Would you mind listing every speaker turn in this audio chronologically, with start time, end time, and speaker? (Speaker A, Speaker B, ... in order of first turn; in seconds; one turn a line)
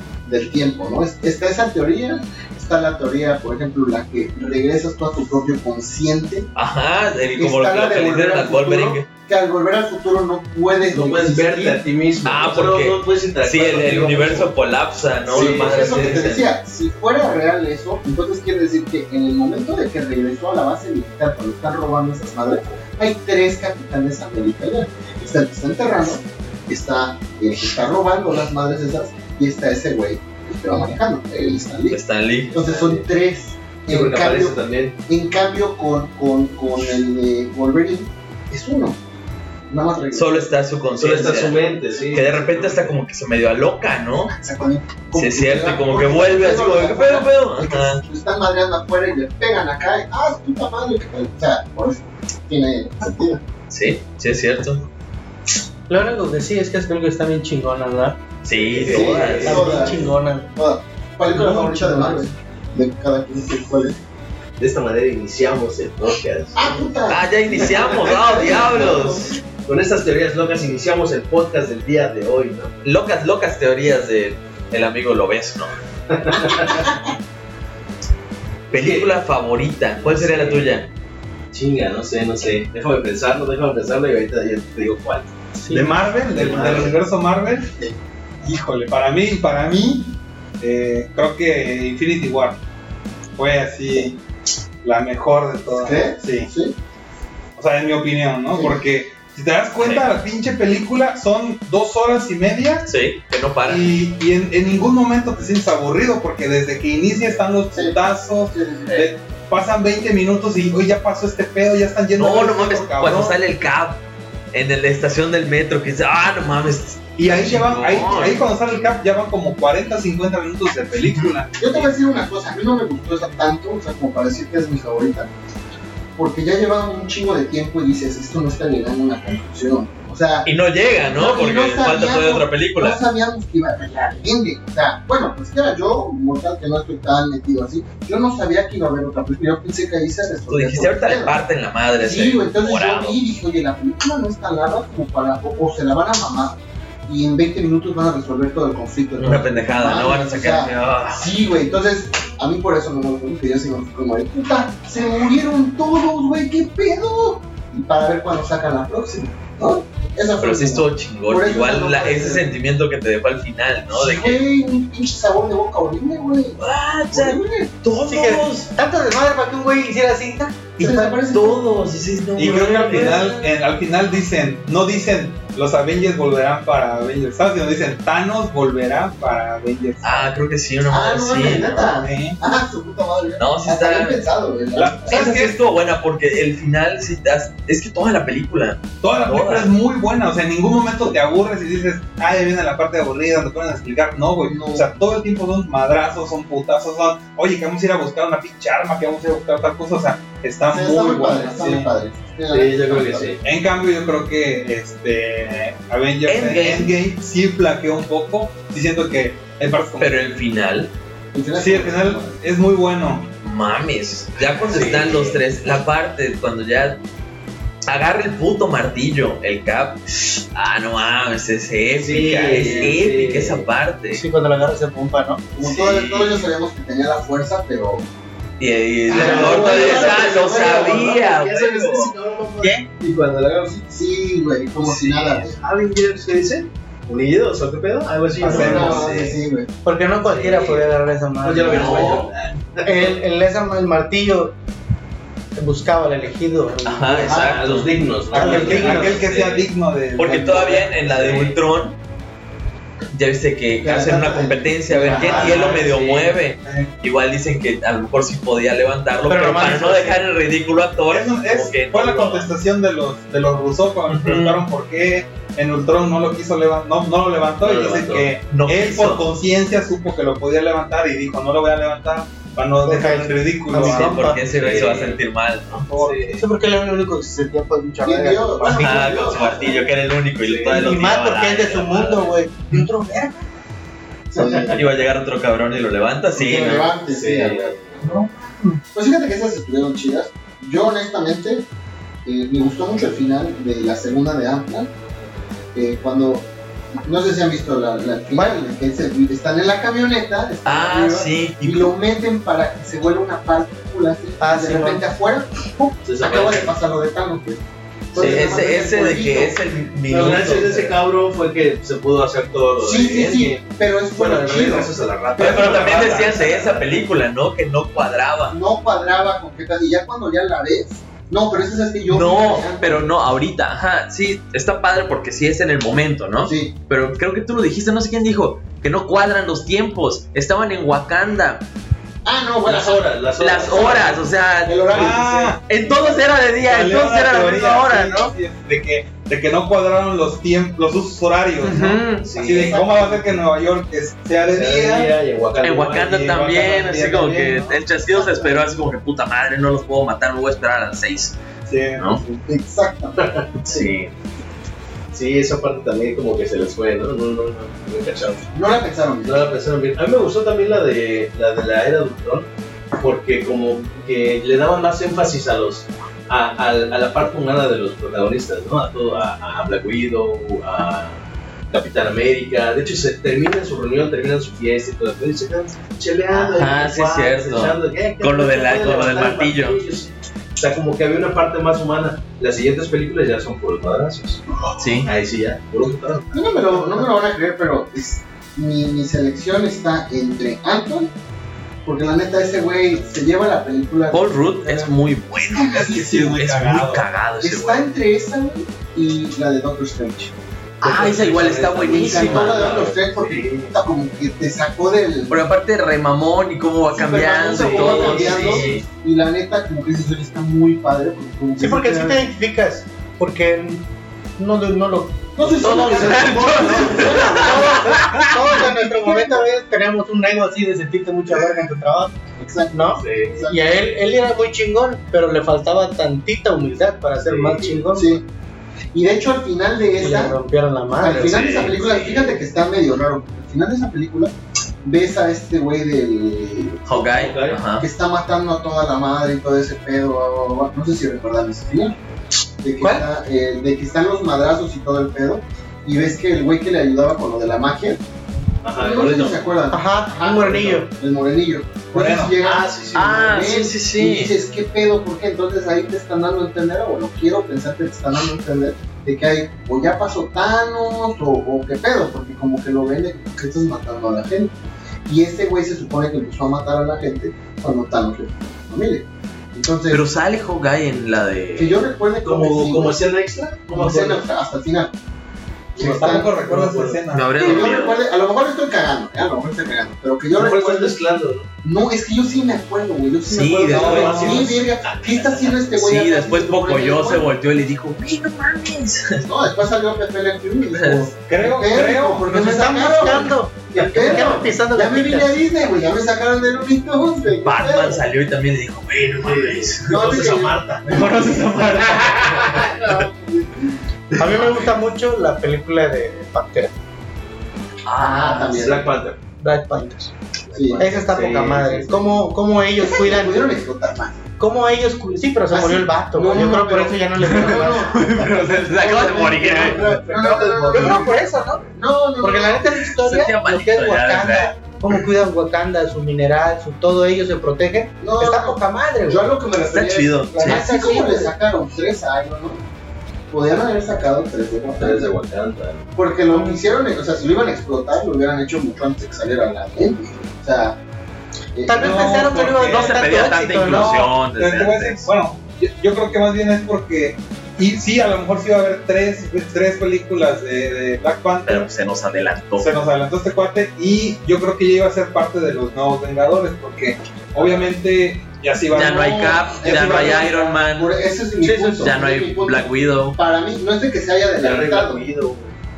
Speaker A: 0.2-6.5
Speaker B: 6.5-9.1
Speaker A: 7.3-11.8
Speaker C: 10.9-14.5
Speaker B: 12.2-16.5
Speaker C: 15.3-16.2
Speaker A: 15.3-32.0
Speaker B: 31.9-32.6
Speaker A: 32.5-39.0
Speaker C: 32.5-33.0
Speaker C: 33.9-34.9
Speaker A: 39.7-40.5
Speaker B: 40.1-44.3
Speaker C: 40.9-43.0
Speaker A: 44.3-53.4
Speaker B: 45.1-48.0
Speaker B: 53.7-54.8
Speaker D: 55.9-58.2
Speaker B: 58.4-59.9
Speaker C: 58.5-59.9
Speaker A: 58.8-64.0
Speaker D: 59.1-60.5
Speaker D: 61.3-62.3
Speaker C: 64.6-66.9
Speaker A: 66.5-69.3
Speaker B: 67.1-69.3
Speaker C: 67.6-69.1
Speaker C: 69.6-72.8
Speaker B: 72.8-75.7
Speaker C: 76.1-76.9
Speaker C: 78.7-79.1
Speaker B: 78.7-80.9
Speaker C: 80.0-80.7
Speaker C: 81.5-85.3
Speaker D: 85.6-85.9
Speaker E: 85.7-87.8
Speaker C: 86.3-87.0
Speaker E: 88.4-89.9
Speaker A: 89.7-90.1
Speaker E: 90.6-92.6
Speaker E: 93.3-94.2
Speaker E: 94.8-96.5
Speaker A: 95.7-96.7
Speaker E: 97.6-102.9
Speaker A: 98.5-98.8
Speaker B: 99.8-100.1
Speaker B: 102.9-103.9
Speaker E: 103.6-113.4
Speaker A: 107.7-109.0
Speaker B: 112.2-114.0
Speaker B: 114.5-118.5
Speaker E: 117.2-121.9
Speaker B: 121.0-121.3
Speaker A: 121.6-125.3
Speaker A: 126.2-141.4
Speaker B: 130.4-133.0
Speaker B: 140.5-143.2
Speaker A: 142.0-162.5
Speaker B: 149.2-151.3
Speaker B: 160.4-164.4
Speaker A: 163.9-166.6
Speaker B: 166.6-168.7
Speaker A: 167.1-167.7
Speaker D: 168.0-171.2
Speaker A: 170.8-171.6
Speaker B: 171.3-173.5
Speaker E: 172.3-180.3
Speaker D: 172.9-173.2
Speaker B: 180.0-182.0
Speaker A: 180.9-185.3
Speaker E: 181.5-182.4
Speaker B: 183.4-184.2
Speaker E: 184.8-185.6
Speaker B: 185.1-189.7
Speaker E: 189.0-201.9
Speaker A: 194.4-194.9
Speaker A: 200.7-203.4
Speaker C: 202.5-203.4
Speaker E: 203.4-210.2
Speaker B: 206.2-207.0
Speaker B: 210.0-210.9
Speaker A: 211.3-212.4
Speaker E: 211.5-213.3
Speaker B: 213.4-217.0
Speaker C: 214.7-215.4
Speaker B: 217.8-224.2
Speaker C: 221.9-223.7
Speaker E: 222.2-222.9
Speaker D: 224.1-225.4
Speaker A: 225.5-228.1
Speaker B: 225.6-226.5
Speaker B: 228.6-232.1
Speaker A: 229.1-231.2
Speaker D: 229.1-229.9
Speaker C: 229.2-233.8
Speaker A: 233.8-235.6
Speaker C: 234.8-239.1
Speaker A: 238.4-239.7
Speaker B: 238.4-239.4
Speaker E: 238.4-239.1
Speaker D: 239.8-242.2
Speaker C: 240.2-240.9
Speaker C: 241.4-243.2
Speaker B: 241.6-242.3
Speaker D: 242.8-244.5
Speaker D: 245.6-247.6
Speaker B: 246.8-249.5
Speaker C: 247.3-249.6
Speaker E: 248.3-251.0
Speaker B: 250.2-251.9
Speaker C: 251.0-251.6
Speaker B: 253.1-262.5
Speaker A: 253.8-255.6
Speaker C: 255.1-256.4
Speaker E: 255.2-255.8
Speaker E: 256.6-256.9
Speaker D: 259.3-260.2
Speaker E: 261.1-274.3
Speaker B: 264.1-264.6
Speaker C: 267.6-268.3
Speaker B: 268.4-269.2
Speaker D: 272.8-274.5
Speaker B: 273.7-275.9
Speaker C: 274.4-275.2
Speaker E: 275.9-276.2
Speaker C: 275.9-276.5
Speaker D: 276.3-279.3
Speaker A: 278.0-279.8
Speaker B: 278.6-282.3
Speaker C: 280.4-280.9
Speaker D: 280.6-283.4
Speaker A: 284.3-284.8
Speaker C: 284.4-284.8
Speaker B: 284.6-286.9
Speaker A: 286.4-287.8
Speaker C: 286.6-288.1
Speaker D: 288.0-288.8
Speaker A: 288.9-291.6
Speaker A: 292.2-294.9
Speaker A: 295.7-296.5
Speaker A: 297.0-307.6
Speaker B: 300.6-301.9
Speaker D: 304.4-305.1
Speaker C: 306.0-306.7
Speaker A: 308.1-309.6
Speaker B: 308.1-310.9
Speaker C: 310.1-313.6
Speaker A: 312.8-314.9
Speaker C: 314.1-316.9
Speaker E: 315.4-316.5
Speaker B: 315.4-318.6
Speaker A: 318.5-323.1
Speaker B: 322.1-331.6
Speaker A: 326.4-326.7
Speaker A: 332.2-333.1
Speaker C: 332.6-334.2
Speaker B: 333.4-335.1
Speaker A: 333.7-334.1
Speaker A: 334.6-336.2
Speaker E: 334.9-335.6
Speaker B: 335.7-338.3
Speaker E: 336.6-345.1
Speaker B: 341.6-342.3
Speaker C: 342.2-342.8
Speaker A: 342.3-343.2
Speaker C: 344.5-346.2
Speaker B: 345.6-351.4
Speaker E: 346.0-347.8
Speaker A: 348.1-348.7
Speaker E: 351.7-352.2
Speaker B: 351.9-352.2
Speaker A: 352.2-353.4
Speaker C: 353.2-353.8
Speaker B: 353.6-354.1
Speaker C: 355.1-358.5
Speaker A: 358.5-359.4
Speaker C: 359.2-386.3
Speaker B: 376.3-379.8
Speaker B: 384.8-385.1
Speaker A: 386.3-391.1
Speaker A: 391.8-396.4
Speaker B: 394.1-397.9
Speaker E: 395.7-397.0
Speaker A: 397.4-400.3
Speaker B: 400.8-402.9
Speaker E: 400.9-402.1
Speaker C: 401.0-403.7
Speaker A: 401.7-405.4
Speaker B: 405.3-408.8
Speaker A: 406.9-412.2
Speaker C: 407.6-408.6
Speaker D: 411.6-413.9
Speaker D: 414.4-422.1
Speaker A: 415.4-417.7
Speaker B: 415.6-418.3
Speaker C: 415.7-416.6
Speaker A: 418.5-419.4
Speaker A: 422.4-423.6
Speaker D: 422.7-428.2
Speaker C: 422.9-423.4
Speaker C: 427.2-427.9
Speaker A: 427.9-428.2
Speaker A: 428.9-430.4
Speaker D: 430.0-431.4
Speaker A: 431.0-434.3
Speaker B: 431.2-432.4
Speaker A: 434.8-442.0
Speaker B: 436.9-437.9
Speaker C: 437.0-437.6
Speaker A: 442.6-448.0
Speaker D: 442.8-443.1
Speaker C: 448.6-449.4
Speaker A: 448.7-464.5
Speaker D: 449.7-450.9
Speaker E: 451.9-452.4
Speaker C: 452.4-453.3
Speaker B: 452.9-454.3
Speaker A: 465.1-470.0
Speaker B: 469.9-471.8
Speaker A: 471.6-473.0
Speaker C: 472.2-474.2
Speaker A: 473.7-474.9
Speaker A: 475.8-476.4
Speaker C: 475.8-477.0
Speaker E: 475.8-477.5
Speaker B: 477.1-478.0
Speaker A: 477.4-481.0
Speaker C: 480.3-481.5
Speaker A: 481.6-487.3
Speaker B: 483.2-484.5
Speaker E: 483.7-484.5
Speaker C: 483.8-485.6
Speaker B: 485.7-489.2
Speaker A: 489.2-498.0
Speaker B: 490.7-491.1
Speaker E: 491.1-492.2
Speaker D: 492.3-495.4
Speaker C: 493.7-494.4
Speaker B: 497.4-503.0
Speaker C: 499.0-501.1
Speaker A: 499.9-501.4
Speaker C: 502.4-502.6
Speaker A: 502.5-503.5
Speaker D: 504.2-506.7
Speaker B: 507.9-508.7
Speaker A: 508.0-508.9
Speaker C: 508.5-509.2
Speaker D: 509.4-510.1
Speaker C: 510.5-512.3
Speaker A: 510.5-510.9
Speaker D: 510.8-513.4
Speaker A: 512.8-514.2
Speaker D: 514.4-518.2
Speaker A: 515.5-521.1
Speaker B: 517.2-519.9
Speaker C: 519.4-521.1
Speaker D: 520.7-521.6
Speaker A: 521.7-522.7
Speaker D: 522.2-529.2
Speaker B: 523.0-525.0
Speaker A: 528.0-532.6
Speaker B: 529.7-530.7
Speaker D: 530.4-531.3
Speaker A: 533.3-535.2
Speaker C: 534.8-535.9
Speaker A: 535.9-540.8
Speaker D: 536.3-536.6
Speaker A: 541.5-542.5
Speaker D: 541.6-543.9
Speaker E: 541.7-543.0
Speaker B: 542.6-545.1
Speaker E: 543.6-551.7
Speaker B: 551.4-552.8
Speaker E: 552.6-560.2
Speaker C: 557.4-557.7
Speaker B: 558.7-560.9
Speaker A: 558.8-565.0
Speaker D: 561.4-561.9
Speaker B: 561.8-563.2
Speaker C: 564.4-565.5